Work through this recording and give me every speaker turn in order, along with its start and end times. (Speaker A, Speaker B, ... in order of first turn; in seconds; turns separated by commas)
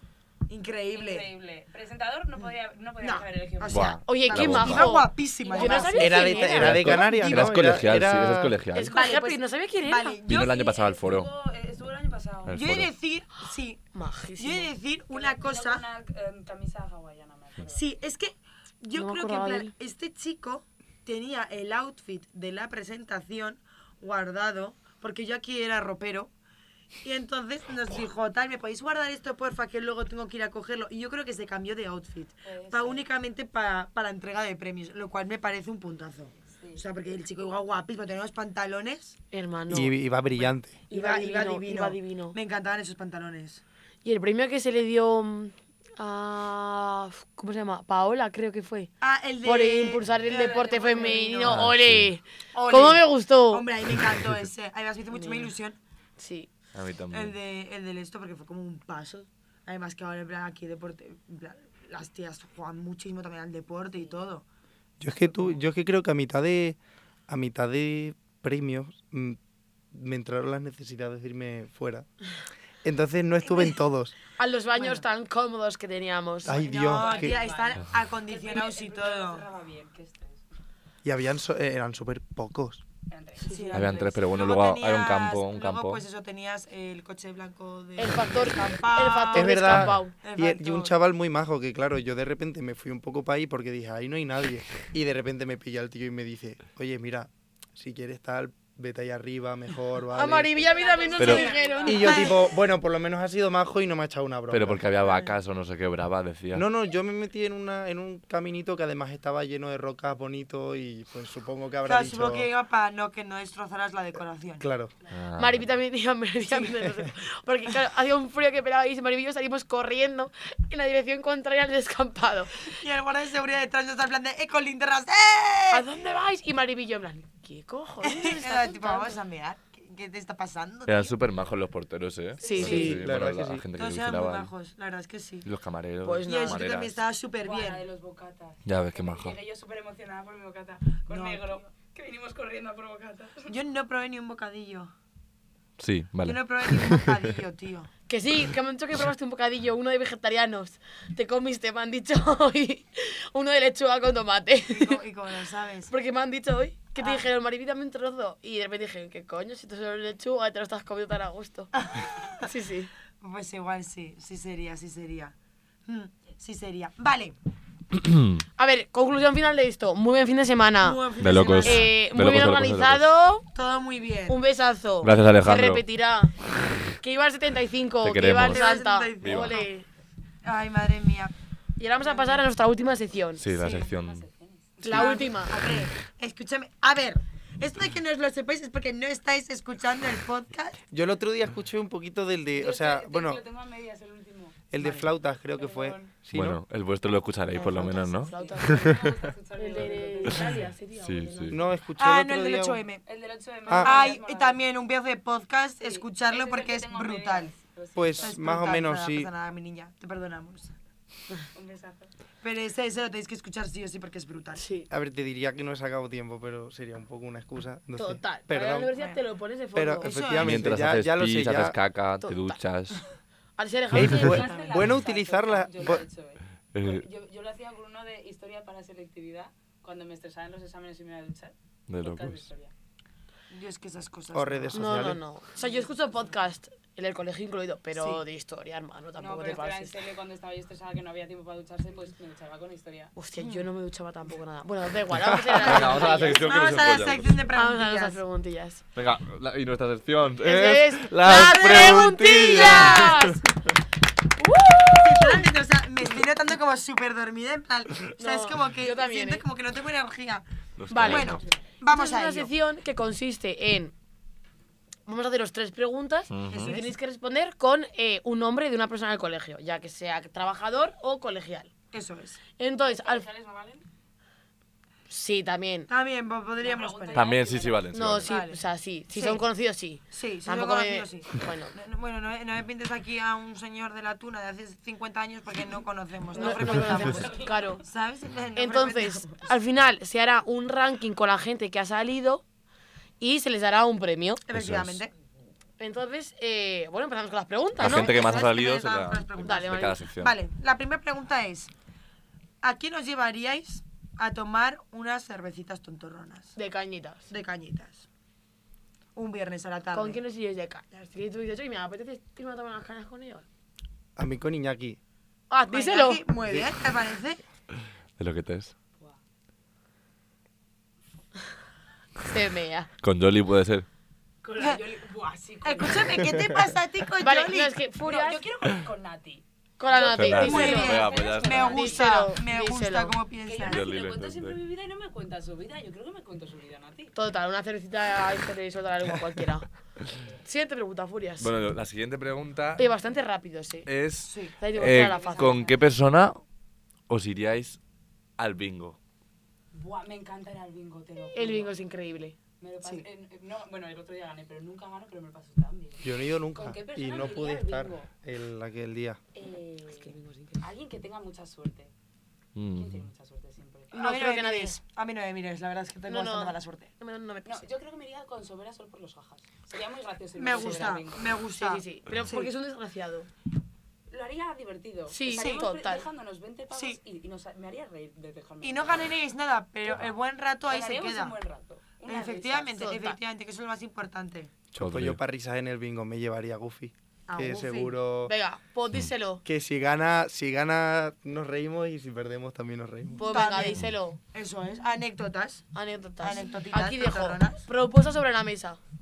Speaker A: 0.5-1.3, Speaker B: 0.9-4.0, Speaker A: 3.0-6.6, Speaker C: 3.7-5.0, Speaker D: 4.0-7.7, Speaker B: 5.4-6.5, Speaker E: 6.0-8.6, Speaker C: 6.5-9.0, Speaker D: 8.7-10.2, Speaker A: 8.9-10.7, Speaker C: 10.3-11.3, Speaker B: 10.3-12.7, Speaker C: 12.5-12.9, Speaker A: 12.5-13.8, Speaker D: 13.9-14.7, Speaker A: 14.4-15.8, Speaker B: 15.1-17.8, Speaker A: 17.7-26.3, Speaker D: 18.9-19.7, Speaker A: 27.0-39.2, Speaker B: 32.5-33.1, Speaker B: 36.5-36.8, Speaker D: 39.3-40.0, Speaker E: 39.7-40.8, Speaker A: 40.4-43.6, Speaker D: 40.9-42.4, Speaker D: 44.0-53.7, Speaker A: 49.0-51.6, Speaker B: 50.6-51.1, Speaker C: 51.4-52.1, Speaker A: 52.5-55.8, Speaker D: 55.1-55.5, Speaker D: 56.2-56.5, Speaker C: 56.7-57.4, Speaker A: 57.1-64.5, Speaker E: 65.0-69.4, Speaker E: 69.9-72.1, Speaker E: 72.8-74.1, Speaker A: 73.5-73.7, Speaker D: 74.4-76.6, Speaker E: 76.4-77.4, Speaker A: 76.5-79.5, Speaker B: 76.5-80.4, Speaker E: 81.0-82.8, Speaker B: 83.1-84.1, Speaker A: 83.4-90.9, Speaker C: 83.7-86.0, Speaker D: 88.0-90.2, Speaker E: 89.3-100.7, Speaker D: 100.1-102.4, Speaker B: 100.6-102.4, Speaker C: 101.2-101.5, Speaker A: 101.2-102.4, Speaker E: 101.9-104.8, Speaker C: 104.5-106.7, Speaker A: 105.1-105.3, Speaker E: 106.5-112.5, Speaker A: 111.8-114.7, Speaker E: 114.6-114.9, Speaker C: 115.1-115.7, Speaker D: 115.3-122.8, Speaker E: 116.6-117.1, Speaker A: 122.7-125.9, Speaker D: 125.7-129.2, Speaker A: 128.0-131.2, Speaker C: 130.9-134.5, Speaker D: 132.4-133.0, Speaker B: 132.4-132.8, Speaker E: 132.6-133.6, Speaker A: 133.7-135.5, Speaker C: 135.4-137.0, Speaker D: 136.0-136.6, Speaker A: 136.2-137.8, Speaker B: 137.4-143.5, Speaker C: 138.7-139.4, Speaker A: 141.1-141.5, Speaker A: 143.5-144.9, Speaker C: 145.8-147.3, Speaker A: 146.2-147.9, Speaker D: 148.1-155.0, Speaker A: 154.7-155.9, Speaker D: 155.9-161.7, Speaker A: 157.0-157.3, Speaker A: 162.0-162.4, Speaker D: 162.4-162.9, Speaker A: 163.2-165.3, Speaker A: 165.9-167.4, Speaker C: 167.9-168.4, Speaker D: 168.6-173.5, Speaker A: 170.8-172.0, Speaker C: 171.2-173.1, Speaker A: 173.5-174.4, Speaker D: 174.3-179.9, Speaker C: 175.0-175.8, Speaker C: 178.0-178.7, Speaker A: 178.4-179.7, Speaker C: 179.2-179.6, Speaker A: 180.4-181.3, Speaker D: 181.8-183.4, Speaker A: 182.0-182.4, Speaker C: 183.4-184.3, Speaker B: 183.5-185.3, Speaker A: 184.8-190.8, Speaker D: 184.8-185.6, Speaker E: 190.9-193.4, Speaker B: 192.6-196.1, Speaker E: 194.7-196.6, Speaker C: 196.3-199.1, Speaker D: 197.5-199.0, Speaker B: 198.3-200.6, Speaker D: 199.6-201.6, Speaker C: 201.0-201.6, Speaker E: 201.5-202.8, Speaker A: 202.0-203.0, Speaker B: 203.1-204.6, Speaker E: 203.7-204.1, Speaker A: 203.7-207.5, Speaker B: 205.8-208.6, Speaker E: 208.0-209.3, Speaker A: 208.2-210.8, Speaker B: 211.5-212.1, Speaker A: 212.4-214.6, Speaker D: 214.6-214.9, Speaker E: 214.9-218.9, Speaker D: 218.0-220.2, Speaker A: 218.9-219.2, Speaker E: 219.7-221.8, Speaker A: 220.0-220.7, Speaker C: 220.4-223.0, Speaker D: 222.2-223.0, Speaker D: 223.6-224.4, Speaker E: 223.9-226.0, Speaker B: 224.0-232.7, Speaker A: 224.3-224.7, Speaker C: 226.7-227.1, Speaker C: 231.9-232.5, Speaker A: 233.5-235.1, Speaker E: 234.3-235.2, Speaker D: 234.7-240.0, Speaker A: 238.0-238.2, Speaker B: 239.2-243.1, Speaker D: 243.2-246.5, Speaker A: 243.4-243.7, Speaker C: 245.6-247.4, Speaker A: 245.7-248.2, Speaker D: 247.6-248.8, Speaker C: 248.9-253.4, Speaker D: 250.4-253.5, Speaker A: 252.5-253.2, Speaker D: 254.4-255.5, Speaker A: 254.9-260.5, Speaker D: 258.2-259.4, Speaker C: 260.8-261.4, Speaker D: 260.9-263.9, Speaker A: 261.1-262.5, Speaker D: 265.1-271.7, Speaker C: 266.3-266.8, Speaker A: 266.5-266.9, Speaker A: 271.9-272.4, Speaker D: 272.6-273.3, Speaker B: 272.9-273.9, Speaker D: 275.1-275.9, Speaker A: 275.9-277.3, Speaker B: 276.6-277.9, Speaker C: 277.1-278.3, Speaker D: 277.9-281.7, Speaker A: 278.2-278.6, Speaker A: 279.1-279.4, Speaker A: 280.1-289.5, Speaker D: 286.3-287.9, Speaker B: 286.7-287.8, Speaker D: 288.6-292.4, Speaker D: 293.2-294.4, Speaker A: 294.5-295.1, Speaker C: 294.5-295.0, Speaker D: 295.8-298.2, Speaker C: 297.8-300.4, Speaker A: 297.8-301.7, Speaker D: 299.4-300.0, Speaker A: 302.6-306.6, Speaker D: 306.6-307.3, Speaker A: 307.3-308.0, Speaker A: 309.1-310.2, Speaker D: 309.9-313.5, Speaker E: 314.2-315.0, Speaker D: 315.5-316.2, Speaker A: 315.7-317.4, Speaker E: 316.5-316.7, Speaker C: 318.2-318.7, Speaker D: 322.3-322.9, Speaker C: 323.0-323.9, Speaker B: 324.4-326.5, Speaker A: 324.6-324.8, Speaker A: 325.6-327.7, Speaker D: 327.2-328.4, Speaker B: 328.1-332.1, Speaker D: 329.8-333.1, Speaker C: 330.1-331.8, Speaker A: 330.4-333.8, Speaker B: 333.5-337.1, Speaker C: 333.6-334.6, Speaker D: 337.1-339.7, Speaker D: 340.4-341.5, Speaker C: 341.4-342.9, Speaker D: 342.8-343.9, Speaker C: 343.9-346.4, Speaker A: 344.3-344.6, Speaker D: 344.6-345.6, Speaker B: 344.7-345.8, Speaker C: 347.1-347.8, Speaker C: 348.4-349.0, Speaker B: 349.7-351.7, Speaker D: 351.4-352.4, Speaker B: 352.6-358.1, Speaker E: 356.0-359.2, Speaker B: 359.4-361.9, Speaker D: 359.9-360.6, Speaker C: 362.6-363.1, Speaker B: 362.8-364.0, Speaker D: 363.9-364.8, Speaker A: 364.0-366.9, Speaker D: 366.1-367.7, Speaker B: 367.5-371.4, Speaker A: 370.4-372.5, Speaker D: 370.6-371.0, Speaker D: 371.6-373.3, Speaker B: 374.1-379.2, Speaker D: 375.1-376.1, Speaker A: 375.3-375.7, Speaker A: 376.7-377.0, Speaker A: 378.6-381.4, Speaker B: 379.9-380.1, Speaker B: 380.7-382.8, Speaker A: 382.1-384.5, Speaker D: 382.8-383.2, Speaker C: 384.7-385.2, Speaker E: 384.8-388.3, Speaker A: 387.3-388.0, Speaker D: 388.3-389.4, Speaker E: 389.4-393.4, Speaker D: 393.2-394.2, Speaker A: 393.2-395.6, Speaker D: 395.7-398.8, Speaker A: 396.2-397.6